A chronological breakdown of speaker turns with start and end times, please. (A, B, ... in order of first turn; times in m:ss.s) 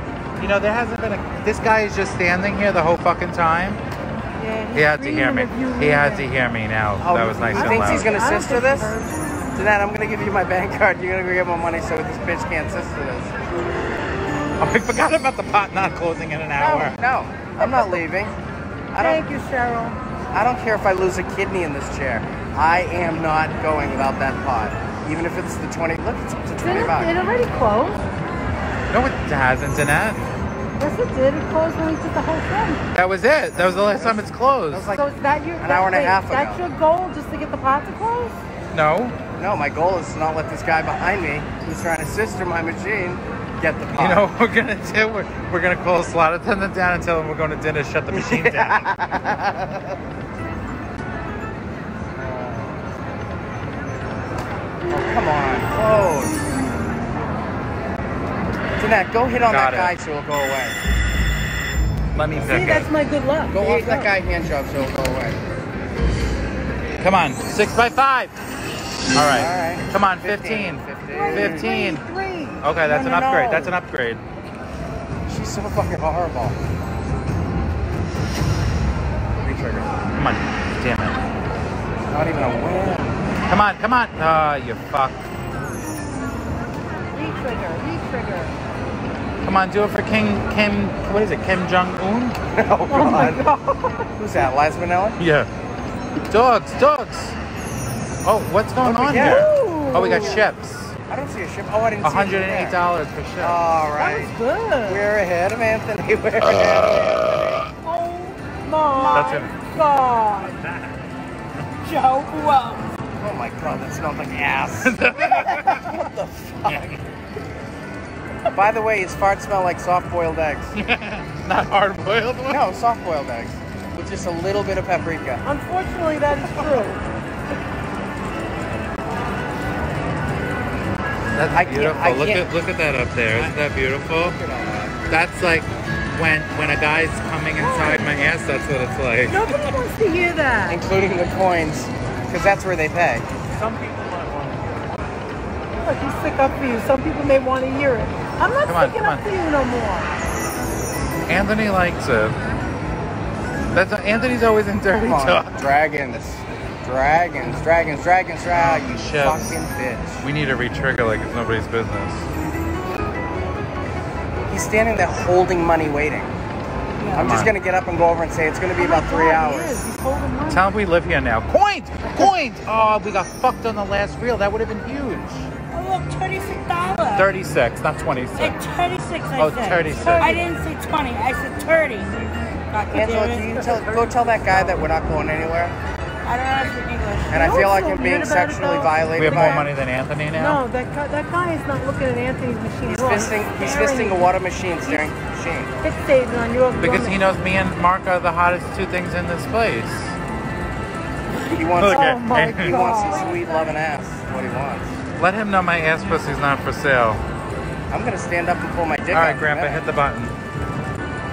0:00.4-0:03.8 A
0:04.4-0:06.3 B
0:04.7-0:08.2 A
0:07.0-0:08.9 C
0:07.5-0:09.5 B
0:09.6-0:13.3 C
0:14.6-0:17.0 A
0:16.6-0:18.3 C
0:17.6-0:18.0 B
0:18.9-0:19.2 C
0:19.0-0:20.0 B
0:20.3-0:27.1 C
0:26.6-0:28.0 B
0:28.9-0:30.2 A
0:30.8-0:32.8 B
0:32.9-0:34.9 A
0:33.9-0:35.1 C
0:34.9-0:38.4 B
0:35.6-0:36.6 C
0:38.7-0:39.2 A
0:39.4-0:44.2 C
0:44.0-0:48.8 A
0:48.1-0:49.9 C
0:52.2-0:52.8 C
0:54.9-0:56.4 C
0:58.8-1:00.8 C
0:59.5-1:00.0 A
1:02.1-1:02.9 A
1:02.4-1:04.1 B
1:03.5-1:05.4 C
1:07.0-1:08.3 A
1:09.1-1:12.0 A
1:09.3-1:11.7 C
1:11.1-1:12.6 B
1:12.6-1:14.2 A
1:12.8-1:13.7 C
1:15.3-1:16.6 C
1:19.4-1:19.9 C
1:20.2-1:21.2 A
1:22.1-1:23.2 C
1:23.5-1:25.2 A
1:27.1-1:28.5 B
1:29.4-1:32.4 A
1:32.5-1:33.4 C
1:32.9-1:34.1 B
1:34.2-1:35.2 C
1:35.2-1:35.5 A
1:36.3-1:37.4 A
1:38.2-1:40.9 A
1:38.8-1:40.1 C
1:39.1-1:40.4 B
1:41.1-1:42.8 C
1:42.0-1:43.6 A
1:43.4-1:44.3 C
1:44.0-1:45.1 B
1:44.8-1:47.6 C
1:47.9-1:48.3 D
1:48.0-1:50.6 B
1:48.9-1:49.4 D
1:49.1-1:49.5 A
1:51.8-1:52.8 D
1:53.2-1:57.0 C
1:54.8-1:55.9 A
1:56.7-1:57.0 A
1:58.5-2:00.7 C
2:00.7-2:02.6 A
2:02.5-2:05.4 C
2:05.4-2:07.0 B
2:11.3-2:14.4 A
2:11.5-2:12.4 C
2:14.1-2:14.9 C
2:15.1-2:19.4 A
2:17.6-2:18.1 B
2:19.3-2:20.8 B
2:20.7-2:23.3 C
2:23.5-2:25.0 E
2:25.8-2:30.2 B
2:28.6-2:29.3 A
2:31.3-2:32.4 A
2:33.7-2:35.6 A
2:35.0-2:40.2 C
2:38.5-2:39.6 A
2:40.2-2:42.2 A
2:44.5-2:46.3 C
2:47.0-2:47.4 D
2:47.1-2:47.5 A
2:47.1-2:49.8 C
2:48.8-2:50.6 B
2:50.5-2:55.5 A
2:55.7-2:57.3 D
2:57.1-2:58.6 A
2:58.4-3:02.1 D
2:59.4-3:00.4 A
3:00.0-3:00.4 B
3:02.7-3:03.8 D
3:02.9-3:05.7 C
3:03.6-3:04.7 E
3:06.2-3:07.4 D
3:07.3-3:09.7 C
3:07.3-3:09.7 B
3:09.2-3:10.6 A
3:10.3-3:14.3 B
3:12.8-3:15.8 C
3:14.8-3:15.1 B
3:15.8-3:17.2 B
3:16.8-3:20.2 A
3:21.5-3:24.9 C
3:21.8-3:22.9 A
3:21.8-3:23.8 B
3:25.2-3:27.2 A
3:27.9-3:29.8 C
3:29.1-3:30.4 A